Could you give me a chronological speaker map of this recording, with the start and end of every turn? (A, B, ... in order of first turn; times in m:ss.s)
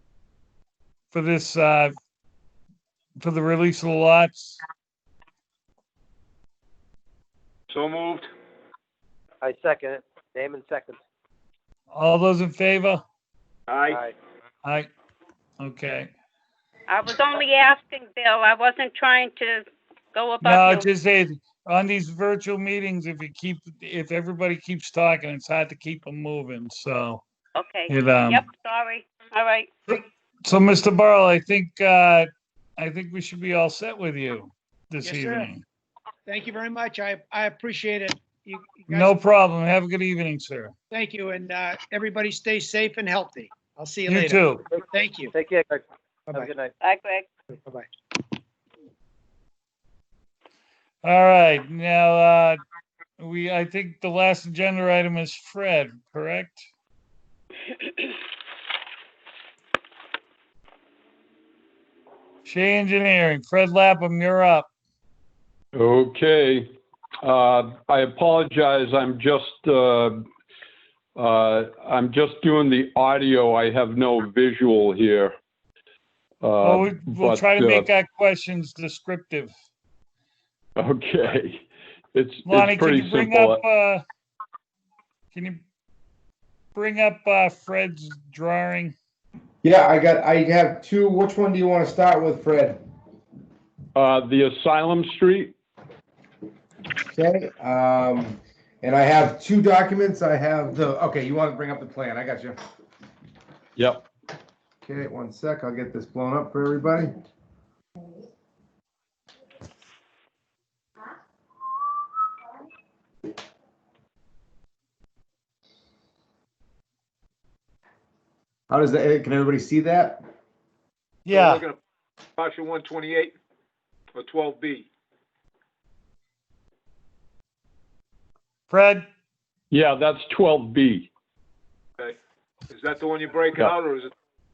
0:01.1-0:02.0 A
0:03.2-0:04.6 A
0:07.7-0:08.3 B
0:09.4-0:11.0 C
0:11.9-0:13.0 A
0:13.7-0:14.1 B
0:13.9-0:14.1 C
0:14.6-0:14.9 A
0:15.6-0:16.1 A
0:16.9-0:20.9 D
0:20.4-0:27.2 A
0:27.6-0:29.7 D
0:27.9-0:28.4 A
0:29.9-0:35.6 A
0:35.0-0:35.5 E
0:36.2-0:39.2 E
0:38.9-0:40.7 A
0:40.9-0:45.3 E
0:44.1-0:44.6 A
0:45.3-0:46.7 C
0:46.8-0:47.3 D
0:47.5-0:47.9 E
0:51.0-0:52.6 A
0:53.2-0:56.7 A
1:02.4-1:04.7 A
1:05.7-1:10.2 F
1:11.2-1:15.3 F
1:16.4-1:17.9 F
1:16.6-1:19.5 A
1:20.8-1:23.6 F
1:22.4-1:24.0 A
1:25.3-1:25.7 A
1:26.8-1:29.0 A
1:29.6-1:32.8 G
1:34.0-1:35.6 F
1:37.1-1:42.6 G
1:43.8-1:44.1 F
1:44.8-1:47.2 G
1:58.7-2:00.2 G
2:01.2-2:01.6 A
2:01.3-2:01.8 B
2:02.4-2:03.4 B
2:04.1-2:04.9 B
2:08.7-2:09.1 A
2:09.7-2:11.1 F
2:12.7-2:14.1 B